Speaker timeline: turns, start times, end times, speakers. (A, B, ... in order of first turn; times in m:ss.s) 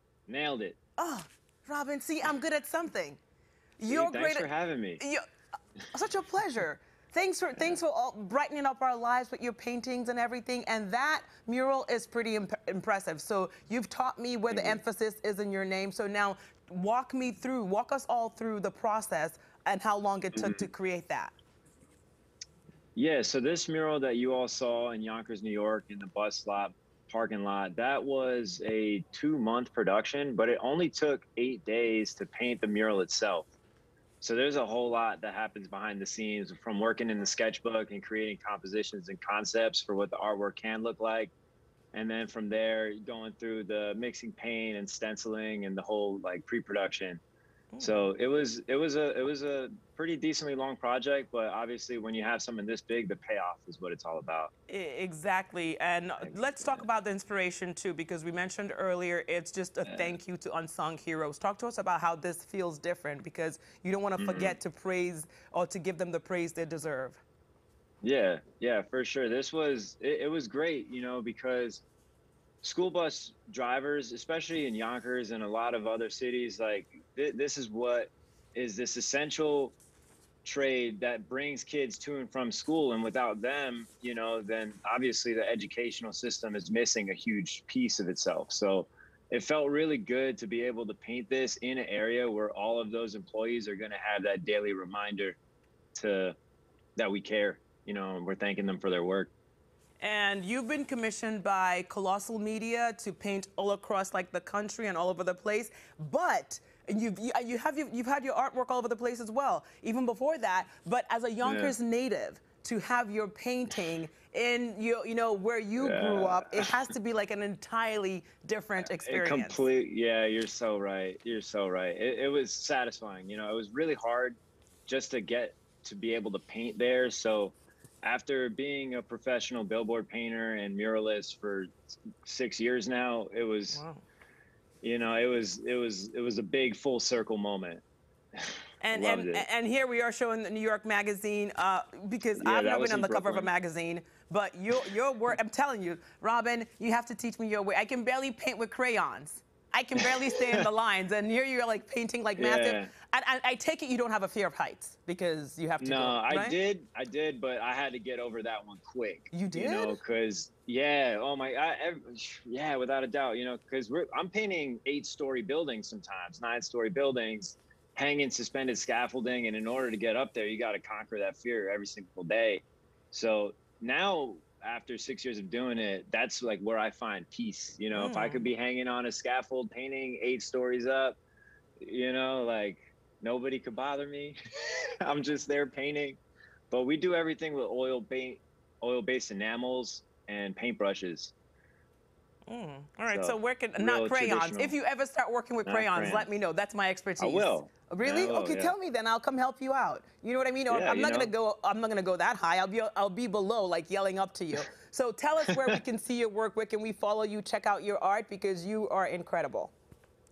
0:00.3-0:00.8 A
0:01.0-0:03.2 B
0:03.8-0:04.5 B
0:03.9-0:05.0 A
0:05.9-0:21.4 B
0:14.5-0:14.8 A
0:20.4-0:20.6 A
0:23.0-0:33.5 A
0:34.2-0:41.3 A
0:41.9-0:47.2 A
0:47.7-0:48.1 B
0:47.8-0:54.5 A
0:54.7-1:07.2 B
0:56.2-0:56.8 A
0:59.9-1:00.1 A
1:04.2-1:04.6 A
1:08.0-1:11.8 A
1:12.6-1:19.8 A
1:20.4-1:35.4 A
1:36.0-1:36.4 A
1:37.0-1:39.3 A
1:40.0-1:59.6 B
1:51.4-1:51.7 A
1:55.8-1:56.8 A
1:58.8-2:13.8 A
2:13.7-2:14.0 B
2:14.8-2:17.8 A
2:18.4-2:19.5 A
2:18.8-2:36.6 B
2:22.4-2:23.5 A
2:30.0-2:30.7 A
2:32.4-2:32.9 A
2:35.8-3:01.2 A
2:39.3-2:40.0 B
2:57.9-2:58.4 B
3:01.8-3:04.4 A
3:05.0-3:06.2 A
3:06.7-3:11.3 A
3:12.5-3:29.7 B
3:13.1-3:14.7 A
3:15.7-3:16.3 A
3:17.2-3:18.8 A
3:20.7-3:21.3 A
3:25.5-3:25.8 A